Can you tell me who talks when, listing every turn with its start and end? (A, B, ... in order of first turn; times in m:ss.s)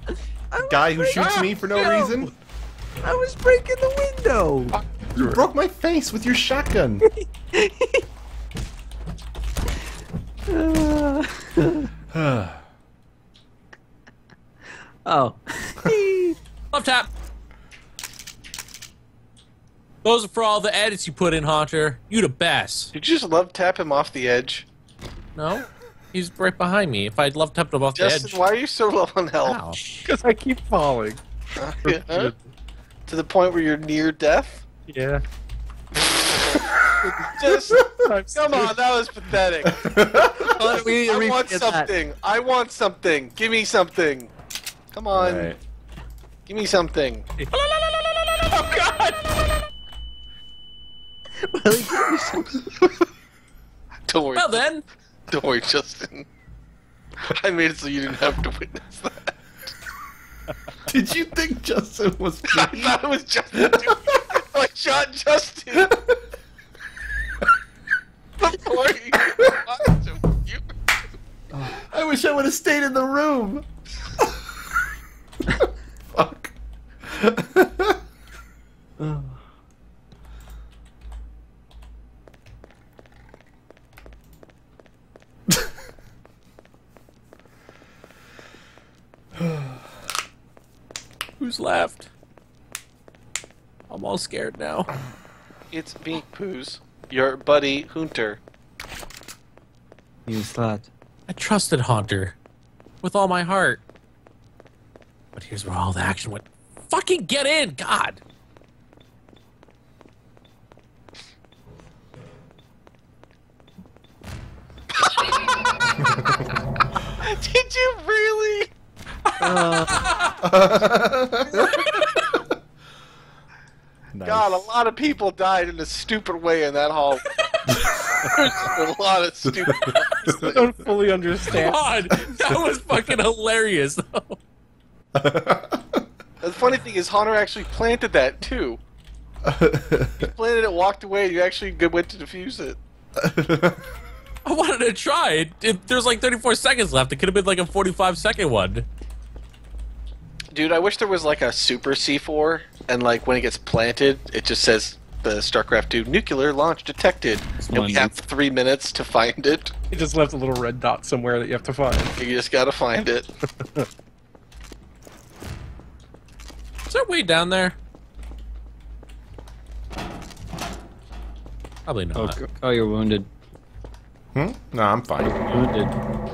0:00.5-0:02.3 A
0:00.6-0:02.3 B
0:03.0-0:04.8 A
0:04.7-0:05.4 C
0:05.1-0:07.0 B
0:07.2-0:08.0 A
0:10.5-0:11.9 A
0:12.1-0:12.6 B
0:15.0-0:16.4 A
0:16.7-0:17.1 D
0:20.0-0:22.9 D
0:22.9-0:24.6 E
0:25.3-0:28.4 D
0:27.9-0:29.6 E
0:29.4-0:30.1 D
0:30.0-0:31.2 C
0:31.6-0:32.3 E
0:31.8-0:32.3 C
0:33.1-0:34.6 E
0:34.9-0:35.2 C
0:37.0-0:44.3 E
0:37.0-0:37.3 C
0:37.9-0:38.8 C
0:39.7-0:40.4 B
0:40.4-0:41.9 A
0:44.9-0:45.5 E
0:45.1-0:45.6 B
0:46.5-0:47.2 E
0:47.4-0:49.3 D
0:51.4-0:52.7 A
0:54.1-0:54.6 E
0:54.3-0:54.8 D
0:55.3-0:56.2 E
0:57.3-0:59.3 E
1:00.8-1:03.0 B
1:02.4-1:05.9 E
1:05.8-1:06.1 B
1:08.4-1:10.6 E
1:11.6-1:13.6 B
1:16.1-1:16.5 B
1:17.1-1:17.9 B
1:19.0-1:19.4 A
1:31.4-1:32.1 D
1:33.9-1:34.9 D
1:35.7-1:38.4 E
1:40.2-1:40.9 A
1:41.3-1:42.4 D
1:43.0-1:43.8 D
1:45.4-1:48.2 D
1:55.1-1:55.4 E
1:57.2-1:58.7 E
1:59.4-1:59.9 A
2:00.4-2:01.9 B
2:04.1-2:04.7 B
2:04.2-2:07.2 E
2:08.3-2:10.7 E
2:10.4-2:11.9 C
2:11.5-2:14.4 D
2:15.1-2:16.0 B
2:16.4-2:18.8 E
2:19.4-2:20.1 B
2:20.2-2:22.8 E
2:23.2-2:23.8 B
2:24.4-2:28.9 D
2:30.5-2:39.7 E
2:37.6-2:38.2 A
2:39.9-2:42.1 C
2:42.2-2:43.3 E
2:43.6-2:43.8 C
2:46.9-2:47.8 D
2:51.8-2:52.4 D
2:52.1-2:53.3 A
2:54.3-2:55.4 B
2:55.2-2:56.0 A